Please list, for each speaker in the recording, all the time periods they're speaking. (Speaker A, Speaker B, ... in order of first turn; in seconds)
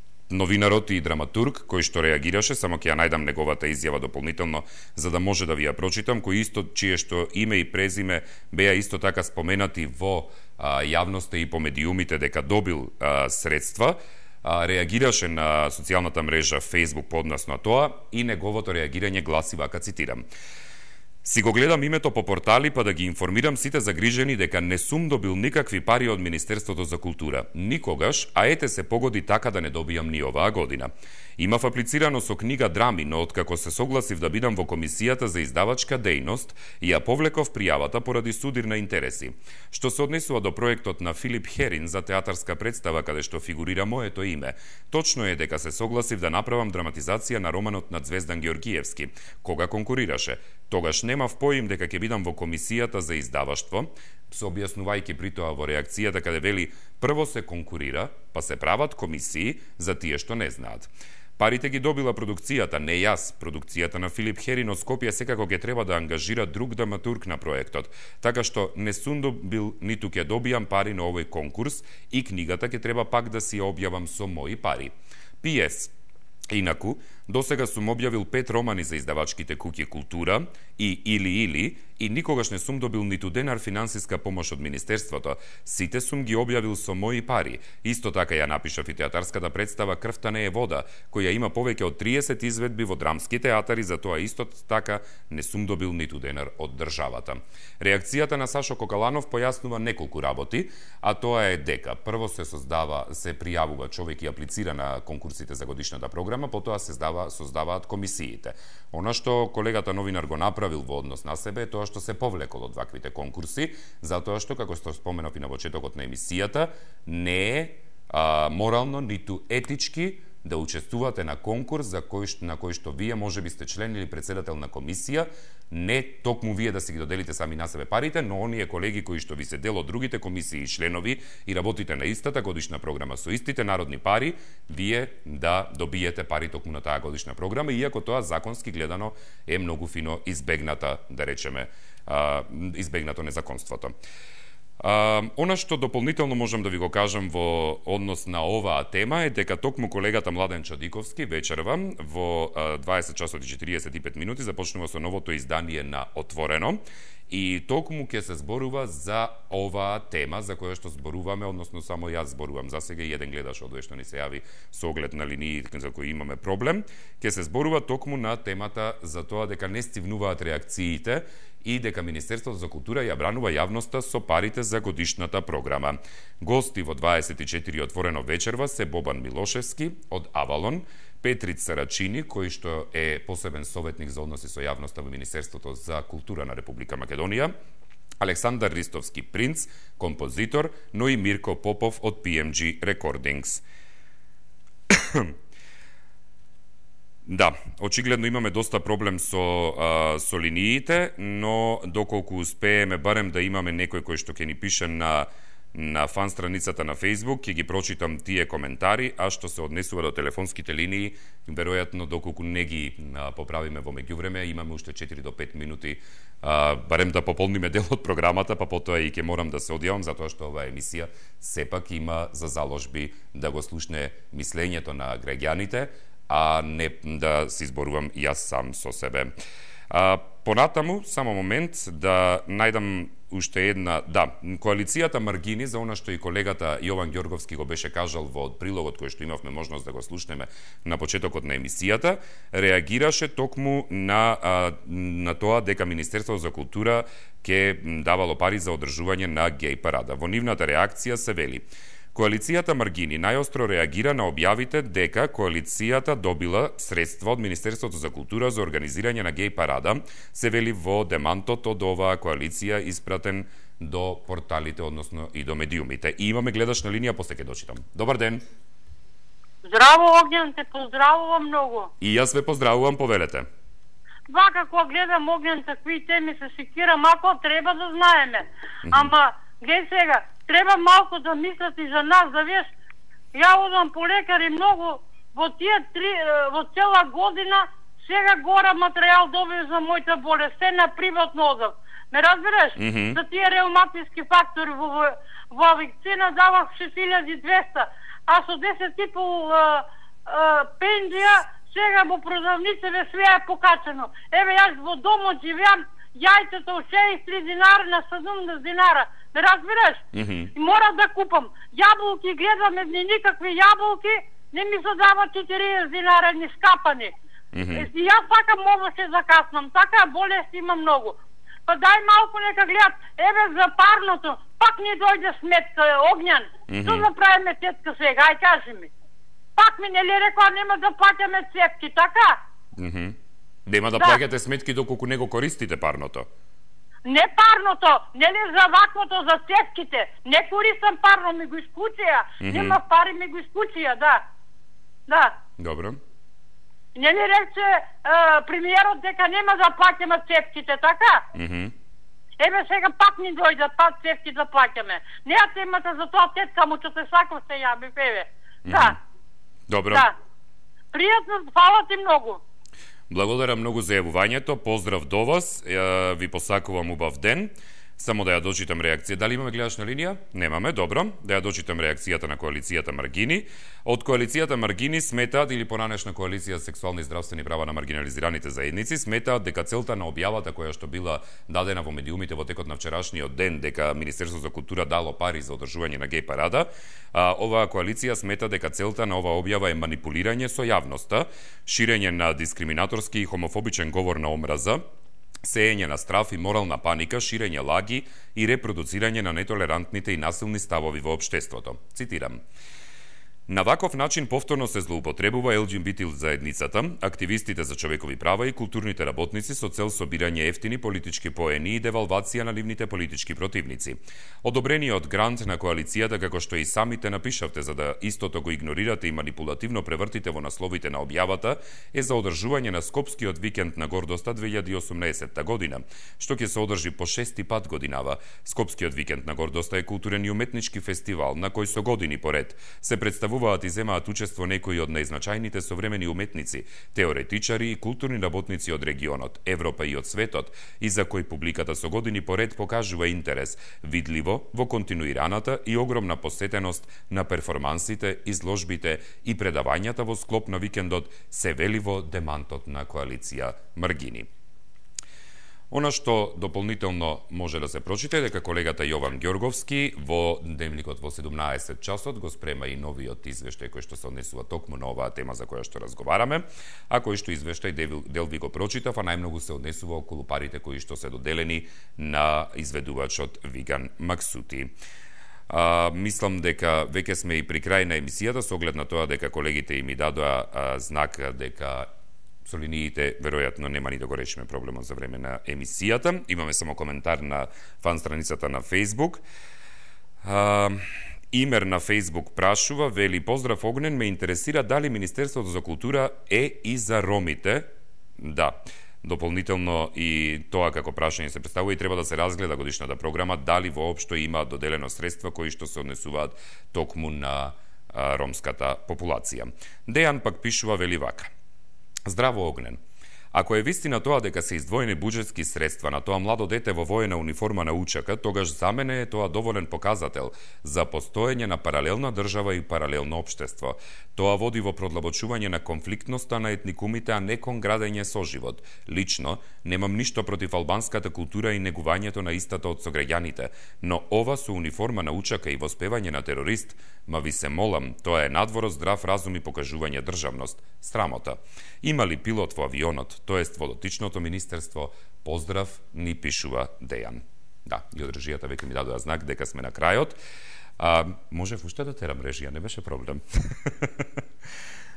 Speaker A: 0.3-20.2, 21.2-75.9, 76.5-143.9, 144.8-187.5, 188.2-193.6, 194.9-195.3, 197.3-229.3, 229.9-268.4, 272.0-273.4, 278.8-279.1, 292.8-293.2, 310.1-310.5, 317.5-317.9, 326.7-327.1, 332.8-333.1, 333.7-336.3, 342.4-342.8, 345.6-346.0, 351.3-351.7, 358.6-359.0, 359.7-360.1, 363.1-394.8, 395.4-402.4, 403.5-454.3, 455.7-474.7, 475.5-481.9, 482.4-489.2, 490.2-511.3, 512.0-512.8, 513.3-550.2, 550.8-554.1
Speaker B: 269.6-271.9, 274.3-282.7, 283.3-317.1, 317.7-328.9, 329.6-332.4, 337.0-344.2, 345.1-345.4, 346.9-351.3, 352.4-359.0, 360.9-362.4